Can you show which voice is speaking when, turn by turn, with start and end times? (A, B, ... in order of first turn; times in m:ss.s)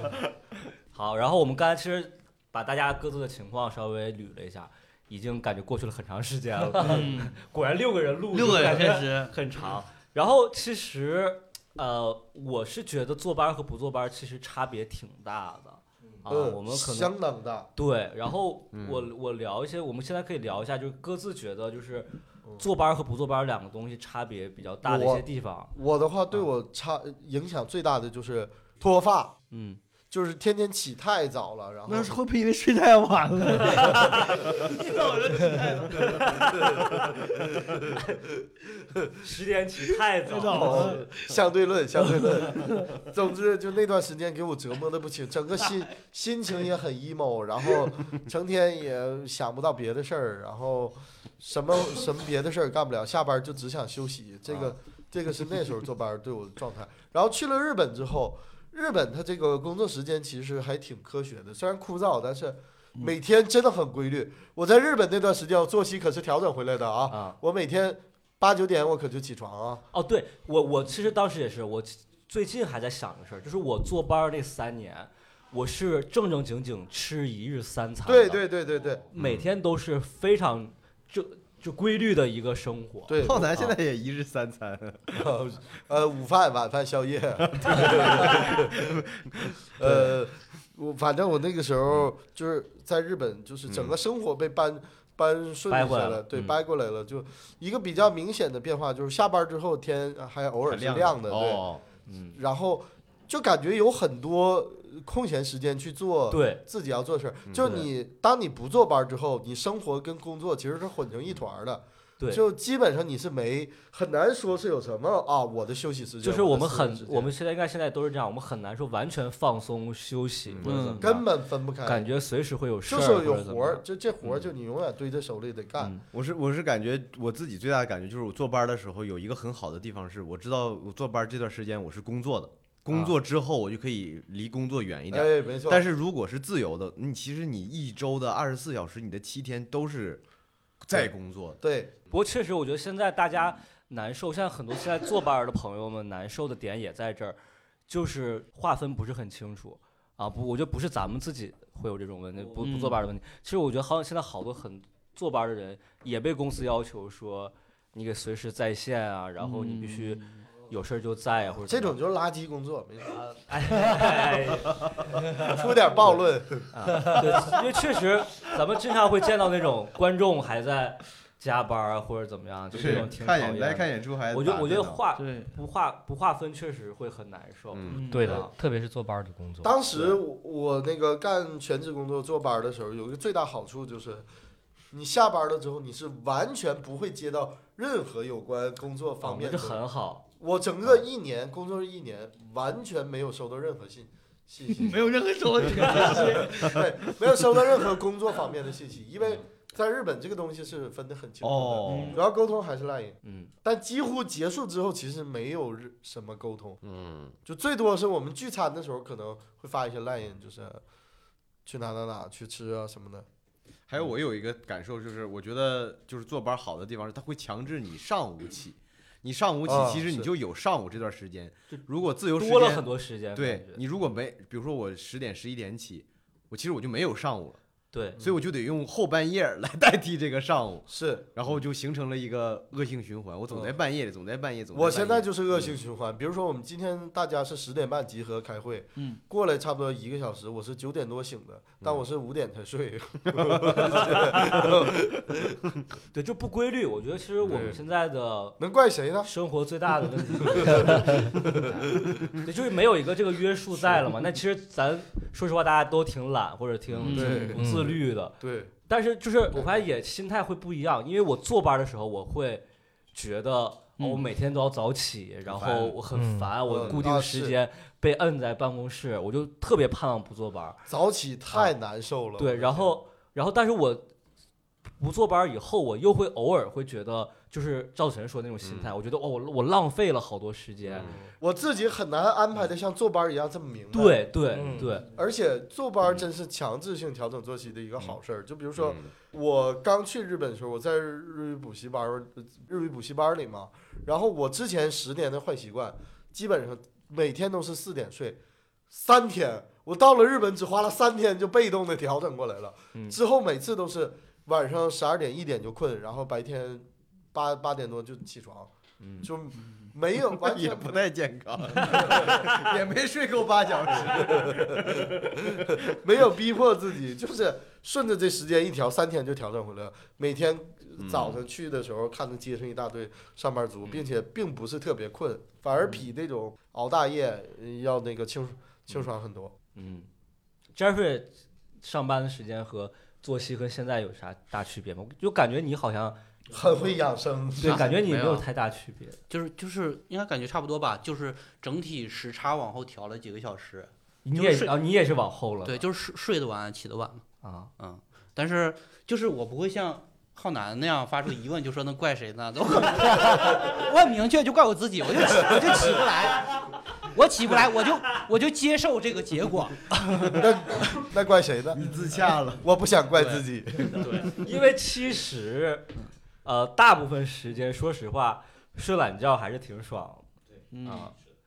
0:00.9-0:17.1 A
0:06.8-0:07.4 B
0:08.3-0:09.3 B
0:16.3-0:17.7 C
0:17.7-0:25.7 A
0:18.7-0:19.1 D
0:24.8-0:29.3 C
0:29.5-0:29.8 A
0:30.1-0:32.2 C
0:31.9-0:37.1 B
0:33.6-0:34.6 A
0:35.9-0:37.1 A
0:37.8-0:38.1 A
0:39.2-0:41.0 A
0:40.2-0:41.2 B
0:40.5-1:09.8 C
0:42.0-0:42.8 B
0:54.5-0:54.7 D
1:07.1-1:07.4 A
1:09.9-1:18.4 A
1:18.0-1:19.1 C
1:19.1-1:23.7 A
1:19.1-1:19.5 D
1:23.1-1:23.7 C
1:23.2-1:25.2 D
1:25.1-1:28.8 C
1:27.5-1:30.0 D
1:29.8-1:41.7 C
1:33.7-1:34.0 D
1:35.7-1:36.6 A
1:40.6-1:41.8 D
1:42.0-1:42.4 A
1:42.4-1:57.3 C
1:46.3-1:46.6 A
1:47.5-1:47.8 D
1:47.6-1:47.9 A
1:56.2-2:01.3 A
2:00.4-2:00.7 D
2:00.6-2:01.1 B
2:01.0-2:02.1 C
2:01.8-2:04.4 A
2:02.8-2:05.9 C
2:05.8-2:06.0 A
2:06.1-2:20.2 D
2:15.1-2:15.8 C
2:20.8-2:21.6 D
2:20.9-2:21.9 C
2:22.1-2:42.0 A
2:32.6-2:33.0 B
2:39.4-2:40.5 B
2:41.6-2:44.6 C
2:43.5-2:44.9 A
2:45.1-2:47.4 C
2:46.7-2:58.5 A
2:52.7-2:55.0 D
2:55.2-2:55.6 B
2:57.7-2:58.1 D
2:57.9-2:58.3 B
2:58.1-2:59.7 E
2:59.6-3:04.2 C
2:59.9-3:00.2 A
3:04.9-3:09.8 C
3:09.2-3:10.3 A
3:10.4-3:26.8 C
3:14.7-3:17.6 B
3:21.4-3:22.2 D
3:21.8-3:22.2 B
3:23.2-3:23.5 A
3:26.8-3:27.4 D
3:27.4-3:30.8 C
3:31.6-3:33.2 C
3:33.9-3:47.6 D
3:39.6-3:40.3 C
3:41.7-3:43.8 A
3:47.9-3:48.2 A
3:48.2-3:55.7 D
3:50.9-3:51.3 C
3:53.5-3:53.7 C
3:54.7-4:05.6 C
4:03.4-4:03.9 D
4:06.1-4:08.6 A
4:07.4-4:07.8 D
4:08.6-4:09.3 C
4:09.2-4:18.4 A
4:10.4-4:12.3 C
4:16.9-4:17.2 D
4:17.0-4:17.6 B
4:17.1-4:18.7 C
4:17.6-4:17.9 E
4:18.9-4:30.8 A
4:19.5-4:19.8 C
4:24.0-4:24.2 B
4:25.4-4:26.0 D
4:26.1-4:26.5 E
4:26.6-4:27.6 C
4:30.9-4:33.0 C
4:32.4-4:34.1 A
4:35.0-4:41.1 A
4:38.6-4:38.9 D
4:40.9-4:41.3 D
4:40.9-4:44.3 C
4:43.9-4:45.1 A
4:44.5-4:44.9 E
4:45.0-4:58.4 C
4:48.8-4:49.1 D
4:58.9-5:08.7 C
5:09.0-5:09.3 A
5:09.2-5:11.0 C
5:10.3-5:15.8 D
5:11.9-5:12.6 C
5:14.1-5:14.8 C
5:15.8-5:29.5 C
5:21.0-5:21.4 D
5:29.7-5:30.1 A
5:30.7-5:36.2 A
5:36.5-5:37.9 C
5:37.6-5:39.2 A
5:38.0-5:38.4 D
5:39.3-5:44.7 F
5:44.2-5:45.8 A
5:45.6-5:47.2 F
5:47.4-5:47.7 A
5:47.8-5:59.9 F
6:00.3-6:01.8 C
6:01.7-6:02.7 D
6:02.6-6:04.3 C
6:03.2-6:03.4 F
6:03.9-6:05.9 A
6:06.4-6:10.3 A
6:10.7-6:11.1 B
6:10.8-6:11.1 A